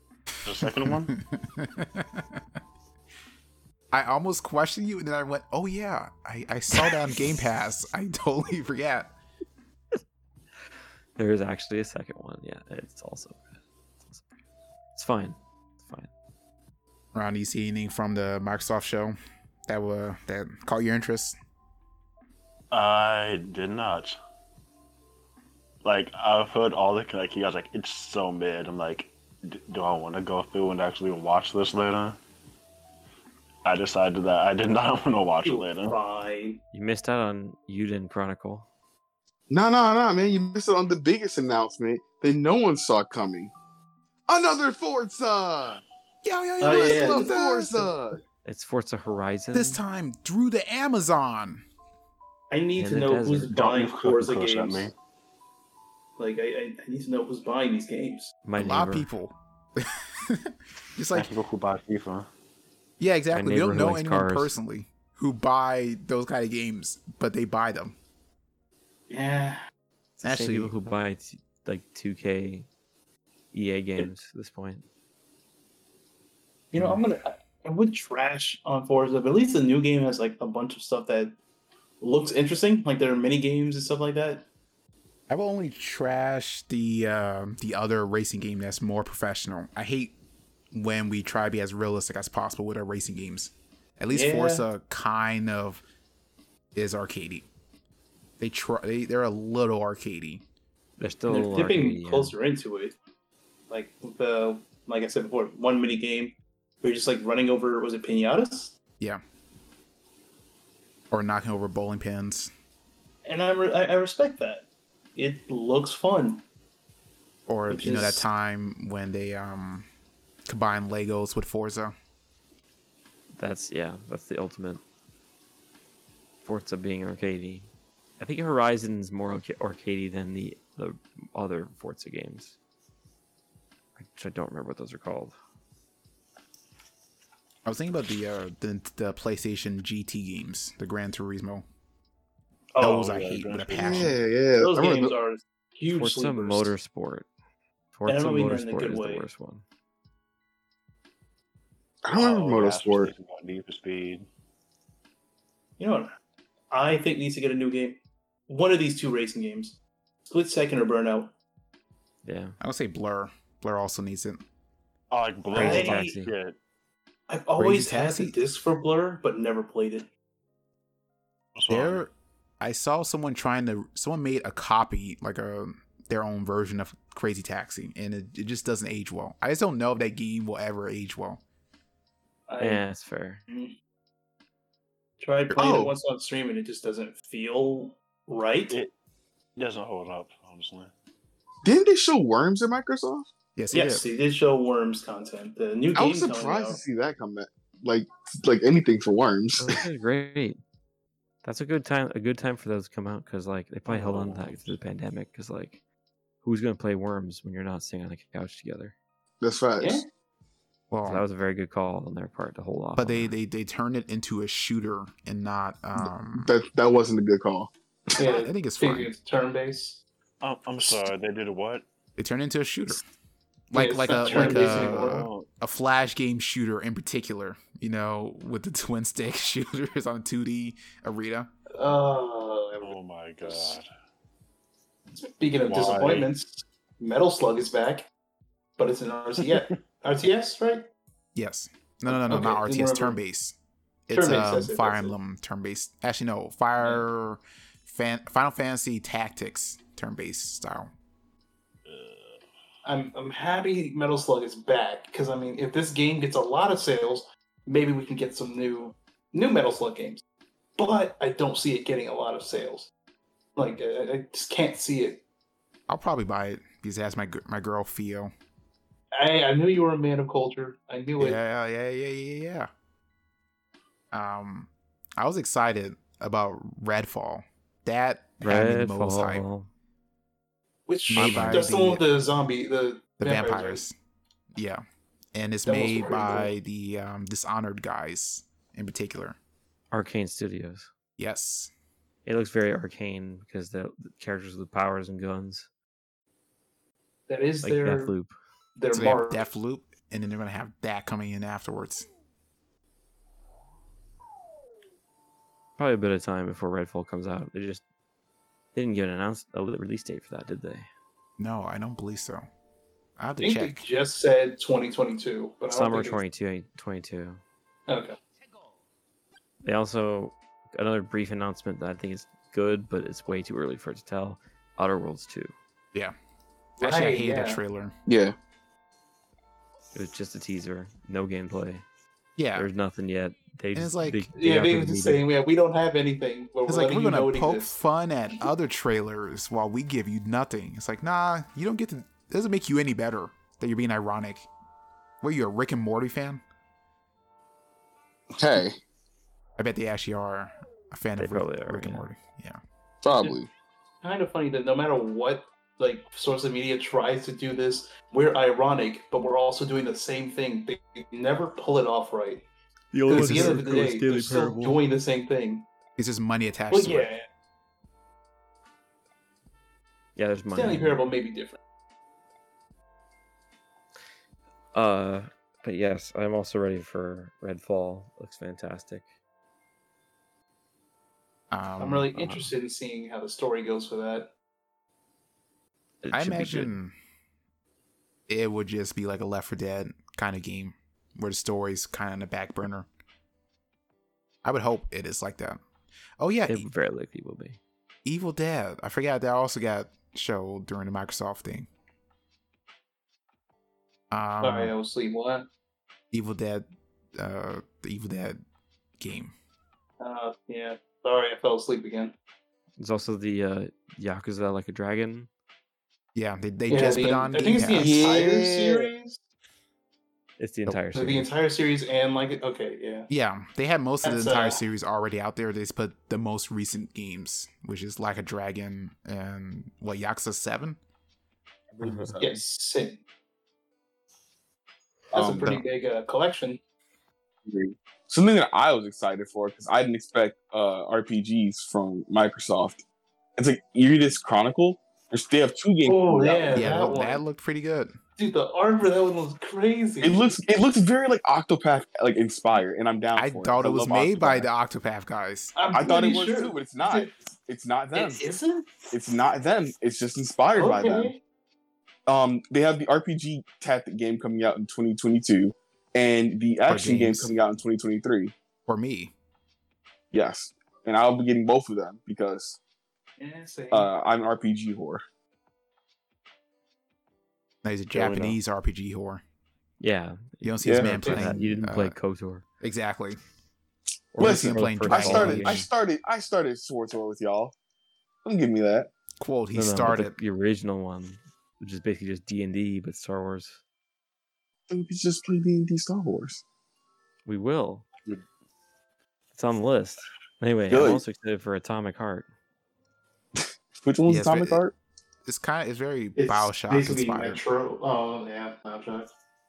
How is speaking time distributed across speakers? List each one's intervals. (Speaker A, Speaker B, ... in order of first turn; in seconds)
Speaker A: 0.4-1.1, 22.7-24.2, 25.8-32.2, 33.6-36.0, 53.5-54.9, 61.1-62.3, 142.8-144.1, 152.1-154.2, 165.1-166.6, 171.6-172.0, 189.6-190.9, 203.9-204.5, 220.4-221.8, 224.2-225.5, 232.8-233.9, 235.7-236.3, 251.9-252.3
Speaker B: 0.6-2.4, 3.9-9.1, 17.1-19.1, 19.7-21.3, 46.2-47.9, 49.5-51.6, 58.5-61.3, 63.0-68.0, 70.2-70.7, 85.3-90.1, 90.7-95.8, 96.7-97.5, 98.4-100.4, 111.1-112.5, 117.5-119.9, 120.5-121.9, 137.6-141.6, 142.8-144.2, 162.6-164.4, 167.6-168.4, 171.7-181.4, 193.6-194.0, 210.9-211.2, 213.0-216.5, 218.2-219.1, 222.2-223.0, 223.7-231.5, 241.3-250.9, 265.9-268.3, 271.2-272.7, 274.1-279.4, 281.1-282.0, 283.2-283.9, 284.5-284.8, 285.3-289.4, 291.2-291.7, 298.9-302.1, 311.4-312.4, 313.2-313.8, 326.8-327.9, 332.4-332.7, 333.7-334.2, 336.7-344.5, 345.2-346.4, 349.6-352.6, 363.1-363.6, 366.0-367.1, 381.5-382.4, 386.1-386.9, 388.3-392.9, 394.4-395.6, 396.2-396.7, 398.0-401.7, 404.1-404.7, 406.1-408.4, 409.0-409.3, 416.1-418.1, 423.1-430.8, 435.1-435.6, 446.5-448.0, 453.1-455.5, 466.7-467.3, 468.7-469.1, 477.6-479.2, 480.4-481.9, 482.6-483.2, 484.1-485.7, 489.2-490.2, 504.0-504.6, 505.2-507.4
Speaker C: 11.2-13.4, 14.9-16.1, 36.7-38.7, 48.4-49.8, 52.8-53.6, 58.4-59.1, 63.3-64.5, 70.2-72.7, 73.5-74.8, 101.0-102.3, 123.4-124.8, 126.4-127.7, 128.2-132.6, 134.0-135.3, 145.9-147.3, 147.9-149.6, 162.2-162.6, 165.5-166.3, 182.6-183.4, 199.6-200.6, 201.4-205.8, 206.4-208.9, 211.0-213.3, 278.4-279.7, 281.1-281.7, 289.9-290.9, 292.2-295.7, 297.6-298.3, 305.8-307.8, 308.7-310.9, 315.7-317.4, 319.6-325.5, 329.9-331.8, 332.5-335.2, 351.2-352.0, 362.9-364.8, 370.1-371.0, 374.7-379.1, 386.0-386.7, 396.5-397.6, 412.8-415.3, 420.4-421.3, 431.8-432.1, 478.0-478.4, 479.8-482.4, 484.1-485.7, 489.5-493.6, 497.2-497.9, 499.3-502.3
Speaker D: 35.4-36.6, 46.6-47.3, 52.5-54.9, 56.2-58.3, 69.1-69.6, 76.7-81.3, 82.0-84.5, 94.1-94.7, 101.3-102.9, 103.7-108.7, 113.2-114.6, 115.2-116.4, 117.7-118.2, 142.7-143.1, 144.6-146.8, 148.1-149.2, 155.8-156.1, 156.7-161.3, 165.6-166.2, 167.3-170.1, 182.5-182.8, 183.5-183.7, 185.2-188.8, 193.7-196.8, 209.8-210.1, 218.2-220.0, 223.7-225.3, 231.7-233.8, 235.1-238.1, 238.8-240.9, 242.1-243.2, 244.1-245.1, 252.8-260.2, 260.8-262.9, 263.6-265.2, 269.1-271.4, 280.9-283.8, 285.6-286.5, 297.3-298.1, 298.8-299.5, 313.4-316.2, 317.9-318.1, 326.8-327.6, 334.3-337.7, 354.0-362.4, 363.1-365.6, 366.7-367.3, 370.5-371.6, 381.8-384.3, 404.4-405.4, 410.0-412.1, 416.7-419.2, 420.9-423.1, 424.0-424.6, 432.2-433.0, 435.1-436.6, 445.8-447.2, 448.2-450.2, 455.5-457.1, 457.9-458.9, 460.6-461.2, 473.2-473.9, 480.8-481.3, 506.2-509.1
Speaker E: 39.5-43.5, 44.3-45.8, 46.6-48.2, 143.8-145.1, 152.0-153.1, 185.6-185.9, 191.6-193.3, 195.9-199.8, 209.4-210.0, 216.0-218.2, 328.1-328.4, 348.4-348.8, 353.0-353.5, 417.8-418.9, 431.8-432.4, 437.4-442.8, 443.4-446.7, 450.0-454.5, 455.7-458.2, 458.9-461.1, 462.1-468.3, 470.1-472.6, 473.7-475.0, 480.6-481.0, 484.2-487.5, 488.2-488.9, 494.7-496.4, 500.7-501.0, 503.4-504.7